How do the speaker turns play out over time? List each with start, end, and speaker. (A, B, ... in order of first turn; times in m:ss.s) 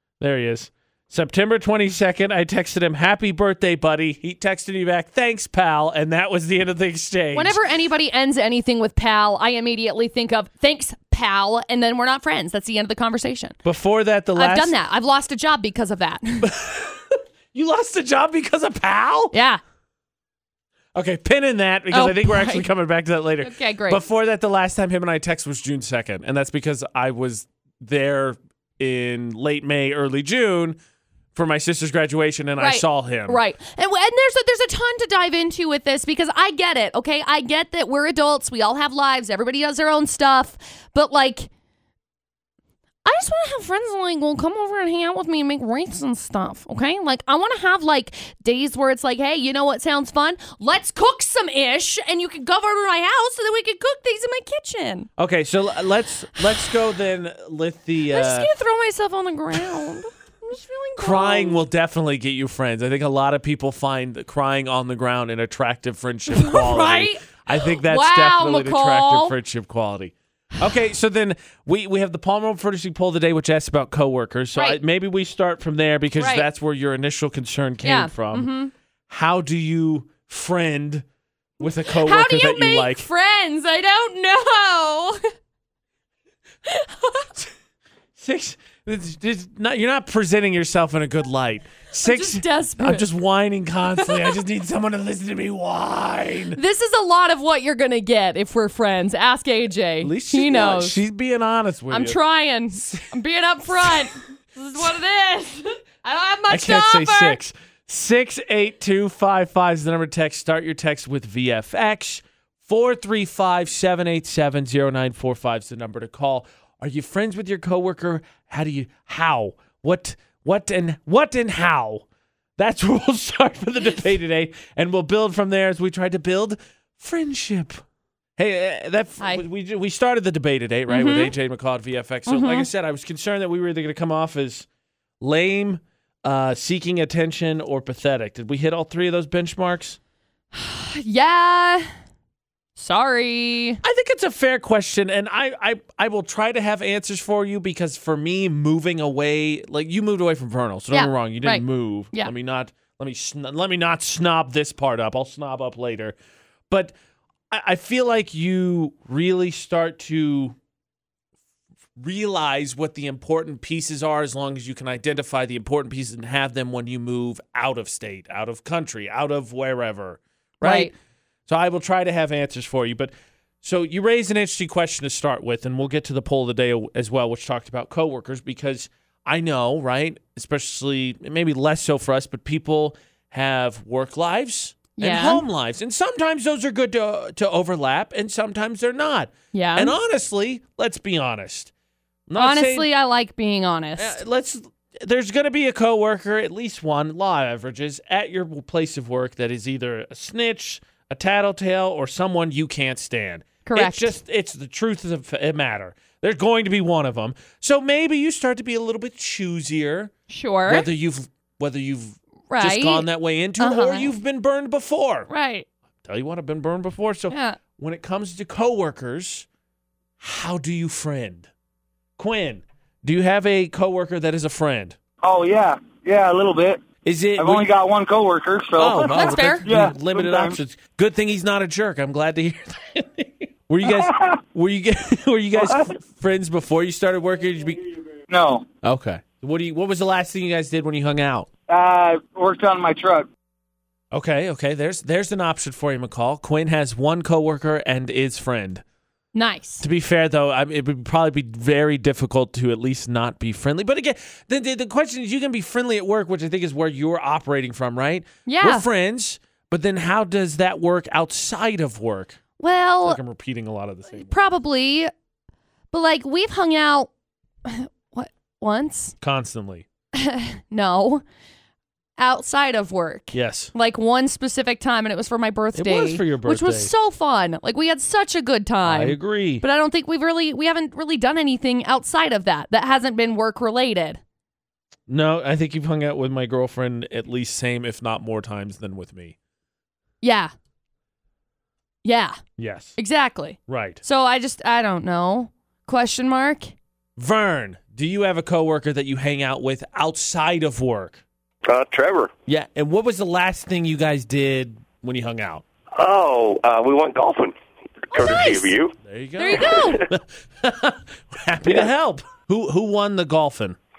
0:00.2-0:07.6 A
0:07.3-0:13.6 B
0:13.6-0:14.8 A
0:14.4-0:16.5 B
0:16.4-0:19.4 A
0:19.3-0:19.6 B
0:21.0-0:30.8 A
0:21.9-0:22.7 B
0:23.4-0:24.0 B
0:31.4-0:33.4 A
0:32.6-0:41.5 B
0:43.0-0:55.1 B
0:55.2-0:58.5 A
0:56.4-0:56.7 B
0:58.1-1:01.6 B
1:01.0-1:18.5 A
1:06.3-1:09.4 B
1:16.2-1:16.5 B
1:17.8-1:18.7 B
1:19.1-1:21.0 A
1:21.6-1:23.1 A
1:21.6-1:25.2 B
1:26.6-1:27.3 B
1:28.2-1:36.6 A
1:32.0-1:33.0 B
1:33.9-1:34.4 B
1:36.6-1:41.0 B
1:40.0-1:42.2 A
1:41.9-1:47.4 B
1:42.7-1:43.1 A
1:43.7-1:44.1 A
1:46.5-2:02.0 A
2:02.6-2:07.8 A
2:08.4-2:14.7 A
2:10.9-2:11.3 B
2:12.3-2:12.7 B
2:15.2-2:20.0 A
2:20.5-2:21.9 B
2:22.8-2:23.8 B
2:23.8-2:36.2 A
2:30.9-2:32.3 B
2:36.7-2:37.0 A
2:37.5-2:40.6 A
2:42.0-2:50.9 A
2:50.6-2:50.9 B
2:51.5-3:11.7 A
3:05.0-3:05.4 B
3:09.5-3:10.0 B
3:12.3-3:12.9 A
3:12.4-3:14.2 B
3:14.0-3:30.1 A
3:23.7-3:24.2 B
3:30.3-3:30.9 B
3:30.7-3:35.3 A
3:32.5-3:33.1 B
3:33.6-3:34.1 B
3:35.3-3:35.7 B
3:36.0-3:39.5 A
3:37.3-3:37.6 B
3:40.2-3:41.5 A
3:42.2-3:45.0 A
3:45.2-3:46.8 C
3:47.0-3:47.7 A
3:47.4-3:50.6 C
3:48.8-3:57.8 A
3:49.1-3:49.7 B
3:53.8-3:54.3 C
3:58.3-3:58.7 C
3:58.8-4:01.5 A
4:01.7-4:03.3 C
4:04.1-4:08.8 A
4:09.3-4:09.8 B
4:09.8-4:22.4 A
4:18.5-4:18.9 B
4:22.6-4:23.2 B
4:23.0-4:24.5 A
4:24.1-4:25.1 B
4:25.9-4:27.1 B
4:27.6-4:29.2 B
4:29.2-4:29.9 A
4:30.2-4:31.2 B
4:32.2-4:44.2 B
4:33.3-4:33.7 A
4:35.8-4:36.9 A
4:38.8-4:39.6 A
4:45.1-4:49.4 A
4:50.2-4:50.5 B
4:52.0-4:52.4 B
4:52.6-4:53.0 A
4:53.0-4:56.7 B
4:53.7-4:54.0 A
4:57.2-5:01.2 A
5:01.7-5:02.3 D
5:02.5-5:05.6 A
5:06.0-5:07.6 D
5:08.1-5:08.9 D
5:08.1-5:08.8 B
5:09.0-5:13.8 A
5:09.4-5:10.0 B
5:09.6-5:10.0 D